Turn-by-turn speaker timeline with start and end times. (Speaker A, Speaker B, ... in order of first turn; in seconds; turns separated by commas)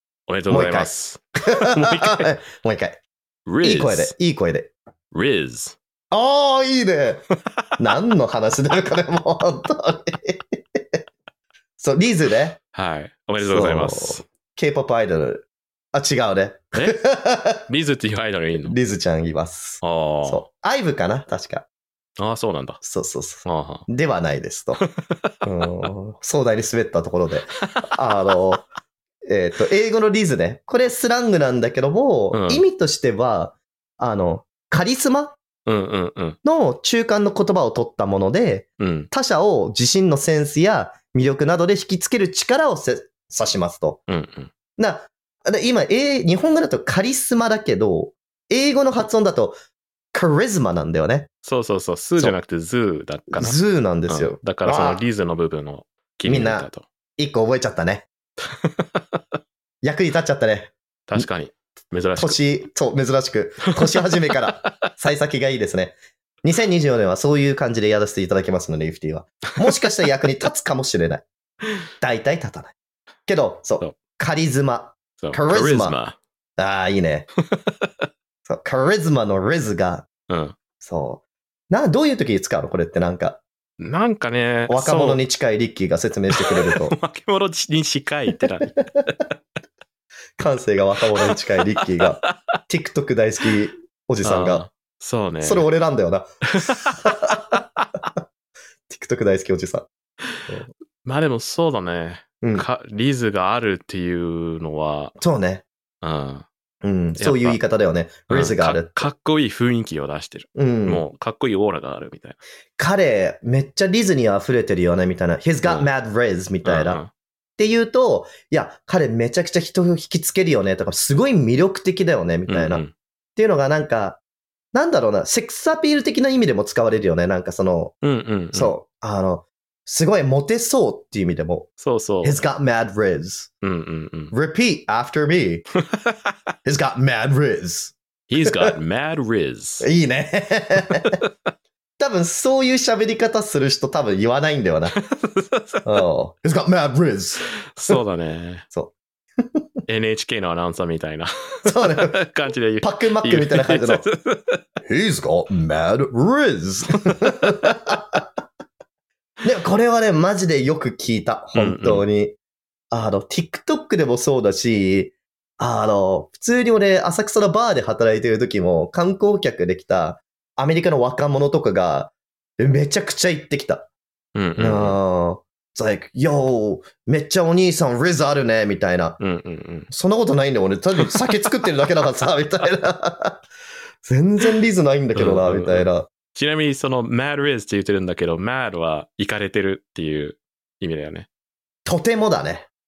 Speaker A: 0.3-2.3, Speaker B: 0.5-0.9, Speaker B: 1.5-3.0, Speaker A: 3.5-4.1, Speaker B: 3.6-4.7, Speaker A: 5.1-5.8, Speaker B: 6.1-7.2, Speaker B: 7.8-11.0, Speaker B: 11.8-12.6, Speaker A: 12.7-14.2, Speaker B: 13.4-17.6, Speaker A: 17.7-18.8, Speaker B: 18.6-21.6, Speaker A: 19.8-20.4, Speaker A: 22.2-22.8, Speaker B: 22.8-24.8, Speaker A: 23.4-23.9, Speaker A: 24.8-25.8, Speaker B: 25.4-28.7, Speaker A: 27.6-28.0, Speaker B: 29.2-35.4, Speaker A: 32.3-32.6, Speaker A: 35.6-36.4, Speaker B: 36.4-44.0, Speaker A: 38.8-39.1, Speaker A: 44.1-44.5, Speaker B: 44.8-49.5, Speaker B: 50.1-51.3, Speaker A: 51.4-56.8, Speaker B: 53.3-55.0, Speaker B: 56.2-58.1, Speaker A: 58.4-59.2, Speaker B: 59.8-61.2, Speaker A: 61.1-62.4, Speaker B: 62.2-71.2, Speaker A: 63.9-64.4, Speaker B: 72.0-72.7, Speaker B: 73.2-76.0, Speaker A: 75.2-76.2, Speaker B: 76.6-77.3, Speaker A: 77.5-78.1, Speaker B: 78.5-80.1, Speaker A: 80.3-80.5, Speaker B: 80.8-83.4, Speaker A: 83.8-85.2, Speaker B: 84.7-86.9, Speaker A: 86.3-89.1, Speaker B: 88.7-89.1, Speaker B: 90.4-94.7, Speaker A: 91.2-92.6, Speaker A: 94.2-95.7, Speaker B: 95.4-97.6, Speaker A: 96.5-96.9, Speaker B: 98.9-99.9, Speaker A: 101.0-105.2, Speaker B: 102.4-102.7, Speaker B: 105.2-105.6, Speaker A: 106.0-106.5, Speaker B: 106.8-109.1, Speaker A: 107.2-107.6, Speaker A: 108.3-112.4, Speaker B: 110.5-111.0, Speaker B: 112.8-117.0, Speaker A: 116.6-117.1, Speaker B: 117.6-122.8, Speaker A: 122.5-122.9, Speaker B: 123.3-124.2, Speaker B: 124.7-127.9, Speaker A: 128.0-128.7, Speaker B: 128.5-131.7, Speaker A: 131.8-132.4, Speaker B: 132.2-133.5, Speaker A: 133.6-134.3, Speaker B: 134.3-135.6, Speaker A: 135.9-136.3, Speaker B: 136.6-138.7, Speaker A: 138.3-139.8, Speaker B: 139.8-141.2, Speaker A: 141.0-141.3, Speaker B: 142.0-144.9, Speaker A: 144.9-146.0, Speaker B: 145.8-148.0, Speaker A: 147.7-148.6, Speaker B: 148.7-149.6, Speaker A: 149.9-154.6, Speaker B: 151.6-152.2, Speaker B: 152.8-154.1, Speaker B: 154.8-158.2, Speaker A: 157.6-157.9, Speaker B: 159.4-162.3, Speaker A: 161.5-162.0, Speaker B: 162.9-173.9, Speaker A: 174.3-174.9, Speaker B: 174.6-179.2, Speaker A: 179.2-179.9, Speaker B: 179.9-183.4, Speaker A: 181.0-181.3, Speaker B: 184.0-186.1, Speaker A: 185.2-191.3, Speaker B: 191.8-192.7